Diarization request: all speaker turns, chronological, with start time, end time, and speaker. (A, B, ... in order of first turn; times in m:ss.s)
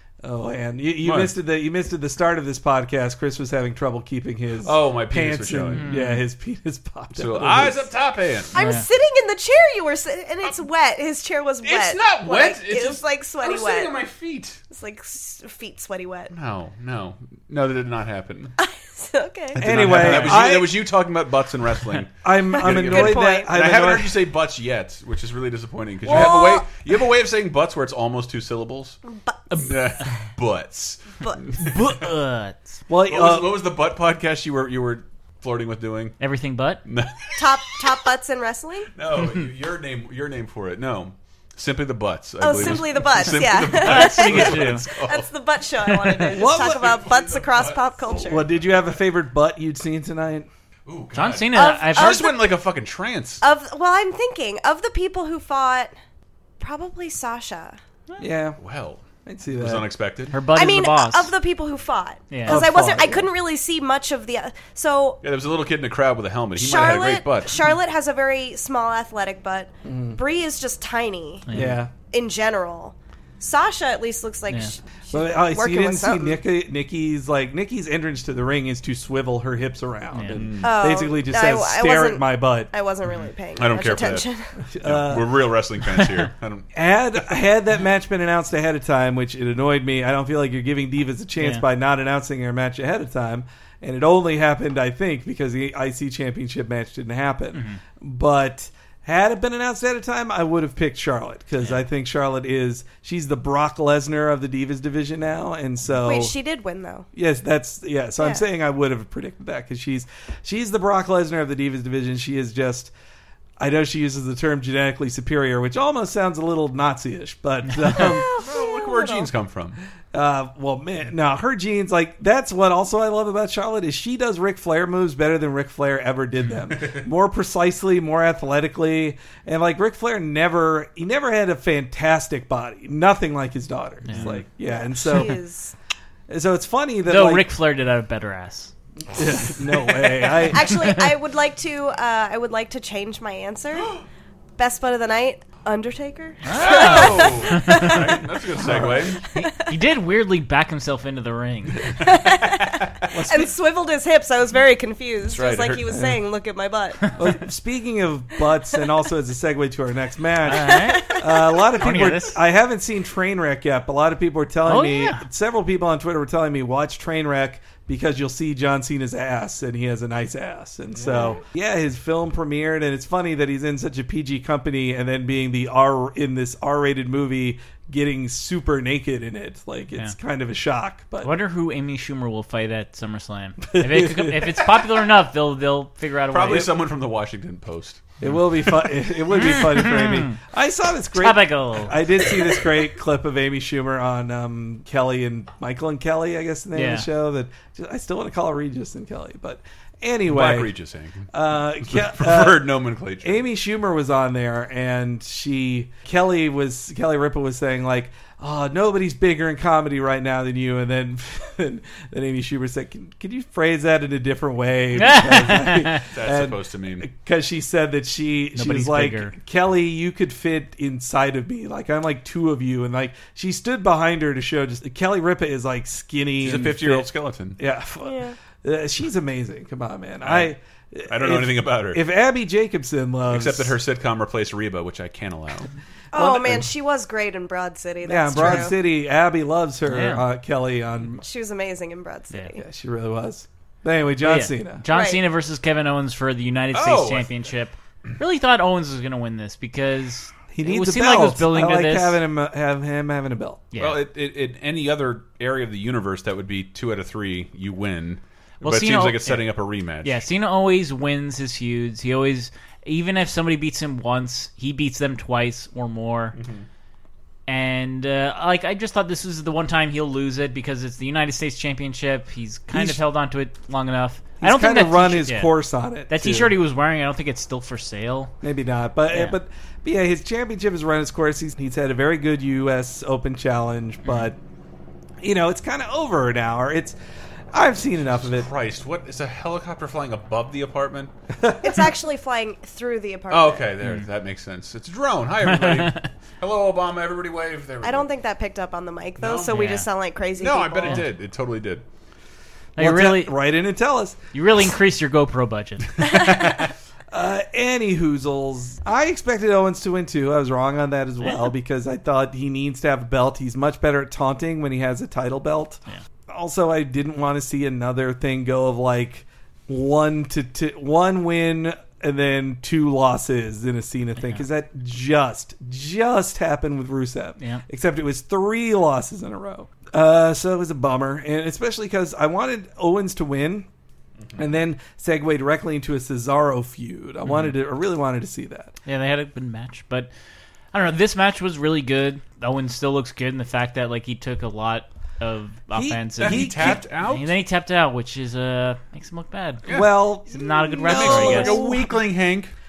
0:00.2-0:07.9 A
0:01.0-0:01.3 B
0:04.6-0:05.9 B
0:05.7-0:06.2 C
0:07.2-0:08.6 B
0:08.5-0:14.0 D
0:08.6-0:08.9 C
0:11.6-0:14.6 B
0:14.7-0:16.3 D
0:16.3-0:18.6 B
0:18.6-0:20.3 D
0:19.6-0:29.0 B
0:19.6-0:20.8 A
0:22.2-0:24.2 A
0:22.6-0:23.5 D
0:26.1-0:26.5 A
0:26.1-0:26.6 D
0:29.1-0:29.5 D
0:29.6-0:32.0 B
0:31.6-0:32.8 C
0:32.9-0:33.6 A
0:33.1-0:36.2 B
0:36.2-0:36.8 C
0:36.9-0:38.1 B
0:37.4-0:38.9 D
0:39.0-0:45.3 B
0:42.4-0:48.5 D
0:43.7-0:44.9 C
0:45.9-0:48.6 B
0:46.3-0:47.0 A
0:48.2-0:50.5 A
0:50.9-0:53.4 B
0:51.1-0:52.2 C
0:51.5-0:52.6 D
0:53.4-0:55.9 D
0:56.6-0:57.8 D
0:58.2-0:58.6 A
0:58.6-1:00.4 B
0:59.3-0:59.9 A
1:00.3-1:01.3 C
1:00.5-1:05.2 D
1:02.3-1:02.6 C
1:02.5-1:03.3 A
1:05.2-1:07.6 B
1:06.6-1:16.4 D
1:09.8-1:10.2 A
1:11.5-1:11.8 C
1:11.5-1:11.9 A
1:11.5-1:11.8 B
1:14.5-1:14.8 C
1:15.1-1:22.7 A
1:20.1-1:20.5 C
1:20.3-1:20.9 B
1:20.6-1:24.5 D
1:23.6-1:24.3 B
1:24.7-1:25.5 A
1:24.8-1:26.7 B
1:26.7-1:46.3 A
1:31.4-1:31.6 C
1:37.5-1:37.8 C
1:46.0-1:47.1 D
1:47.1-1:52.9 A
1:53.6-1:58.4 A
1:58.0-1:59.3 D
1:58.2-1:59.8 B
2:00.1-2:15.4 A
2:14.1-2:14.4 C
2:14.6-2:15.7 D
2:16.3-2:17.5 A
2:17.1-2:18.7 C
2:19.2-2:20.8 A
2:20.5-2:24.0 D
2:20.8-2:21.2 C
2:24.6-2:28.3 D
2:26.4-2:28.0 C
2:26.5-2:29.3 B
2:28.6-2:29.2 A
2:29.2-2:29.8 D
2:29.4-2:31.9 C
2:32.0-2:37.1 D
2:32.5-2:33.1 B
2:33.1-2:33.5 A
2:35.2-2:35.9 B
2:35.9-2:36.2 A
2:37.2-3:01.4 A
2:40.5-2:41.2 C
2:40.8-2:41.6 D
2:41.7-2:42.4 C
2:44.7-2:45.2 C
3:01.2-3:06.8 C
3:03.7-3:04.8 A
3:06.3-3:08.9 B
3:08.2-3:20.7 A
3:09.4-3:10.4 C
3:11.2-3:12.0 C
3:16.7-3:17.1 C
3:20.3-3:23.4 B
3:21.3-3:53.8 A
3:35.0-3:36.1 C
3:36.0-3:37.1 B
3:38.6-3:39.3 C
3:46.4-3:47.6 B
3:48.0-3:48.4 D
3:50.2-3:50.5 B
3:51.1-3:52.0 B
3:53.3-3:55.7 B
3:56.1-3:58.8 D
3:56.1-3:56.7 A
3:58.0-4:01.2 A
3:59.9-4:00.3 C
4:01.2-4:02.6 D
4:02.6-4:04.8 A
4:04.2-4:12.2 C
4:04.9-4:05.2 D
4:06.7-4:07.3 B
4:10.5-4:13.6 A
4:13.7-4:14.0 C
4:13.8-4:20.2 B
4:18.6-4:19.5 C
4:20.0-4:26.4 C
4:26.4-4:26.7 B
4:27.5-4:35.6 C
4:32.7-4:33.0 A
4:34.4-4:36.6 A
4:36.1-4:38.3 C
4:38.4-4:44.4 A
4:39.1-4:39.4 C
4:45.2-4:47.0 A
4:47.5-4:48.5 A
4:48.2-4:51.1 B
4:51.6-4:53.7 D
4:53.3-4:58.1 B
4:53.8-4:54.1 C
4:55.5-4:56.1 C
4:57.8-5:01.0 D
4:59.2-4:59.6 B
4:59.5-4:59.9 C
5:00.4-5:01.8 B
5:02.8-5:03.4 C
5:02.8-5:04.2 A
5:04.3-5:06.2 C
5:07.1-5:33.7 A
5:11.2-5:11.5 C
5:34.4-5:38.8 A
5:37.3-5:37.5 C
5:38.8-5:40.1 C
5:40.7-5:49.7 C
5:45.7-5:46.8 A
5:46.2-5:47.4 B
5:49.6-5:50.0 B
5:49.7-5:51.8 A
5:50.3-5:51.7 C
5:50.8-5:52.5 B